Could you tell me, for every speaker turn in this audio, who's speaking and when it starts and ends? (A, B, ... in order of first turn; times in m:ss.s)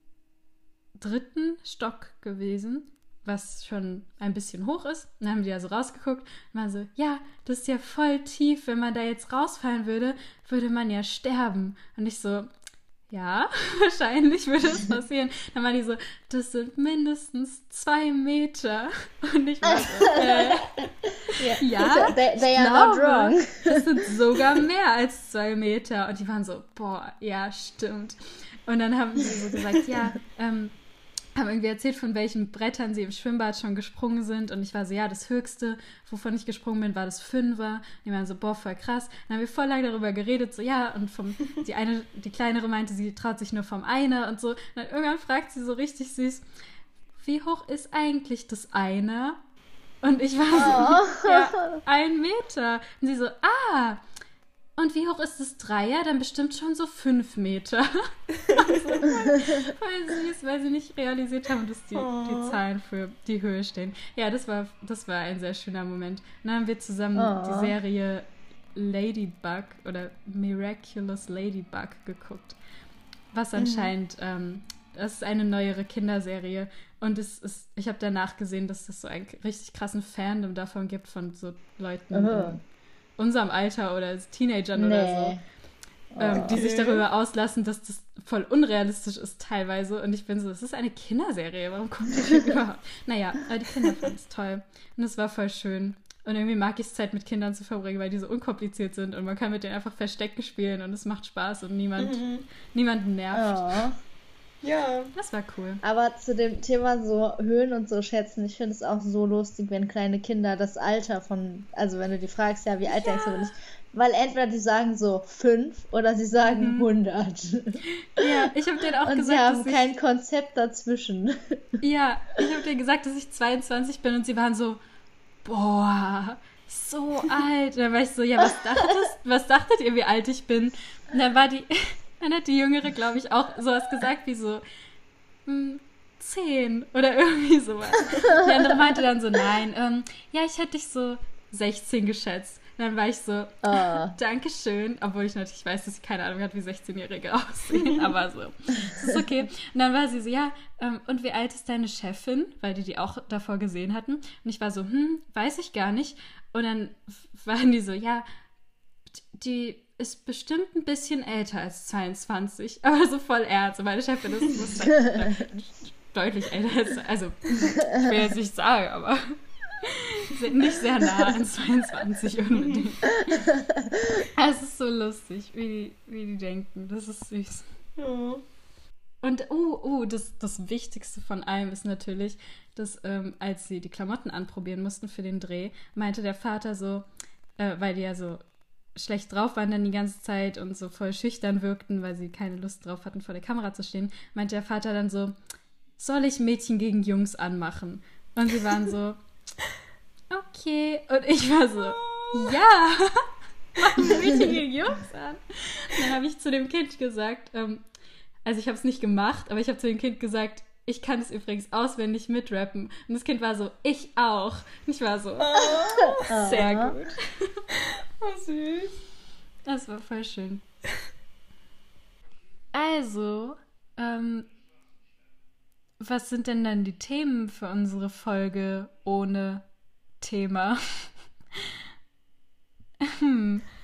0:01.0-0:12.5 A
0:13.1-0:20.7 A
0:19.7-0:20.5 B
0:21.3-0:23.9 B
0:21.6-0:30.7 A
0:31.3-0:46.4 A
0:47.2-0:49.4 A
0:50.0-0:54.0 A
0:50.5-0:51.8 B
0:54.8-1:12.6 A
0:58.4-0:59.0 C
0:59.2-0:59.7 B
1:01.9-1:02.6 C
1:07.2-1:07.7 B
1:13.3-1:22.6 A
1:13.6-1:13.9 B
1:22.1-1:22.6 B
1:23.2-1:25.4 A
1:24.7-1:25.4 B
1:26.1-1:26.6 B
1:26.2-1:43.7 A
1:26.2-1:27.0 C
1:42.0-1:42.4 C
1:43.3-1:44.0 B
1:44.6-1:45.1 C
1:45.1-1:45.8 A
1:45.8-1:58.3 B
1:56.4-1:56.9 A
1:58.0-1:59.9 A
1:59.0-2:01.8 B
2:01.8-2:04.8 A
2:05.4-2:14.6 A
2:15.4-2:38.2 A
2:23.6-2:24.1 B
2:27.8-2:28.0 C
2:39.2-2:53.5 A
2:45.0-2:45.4 B
2:52.5-2:52.9 C
2:53.3-2:54.2 B
2:54.3-2:57.6 A
2:58.0-2:58.4 C
2:59.2-3:07.0 A
3:07.6-3:08.4 A
3:09.0-3:15.3 A
3:16.0-3:19.2 A
3:20.3-3:27.8 A
3:21.8-3:22.6 C
3:24.0-3:24.5 C
3:28.4-3:37.6 A
3:35.4-3:37.0 C
3:36.2-3:36.9 B
3:37.7-3:39.0 C
3:39.7-3:40.6 A
3:42.7-3:44.5 A
3:46.0-3:49.6 A
3:50.2-3:51.1 A
3:53.0-3:53.6 A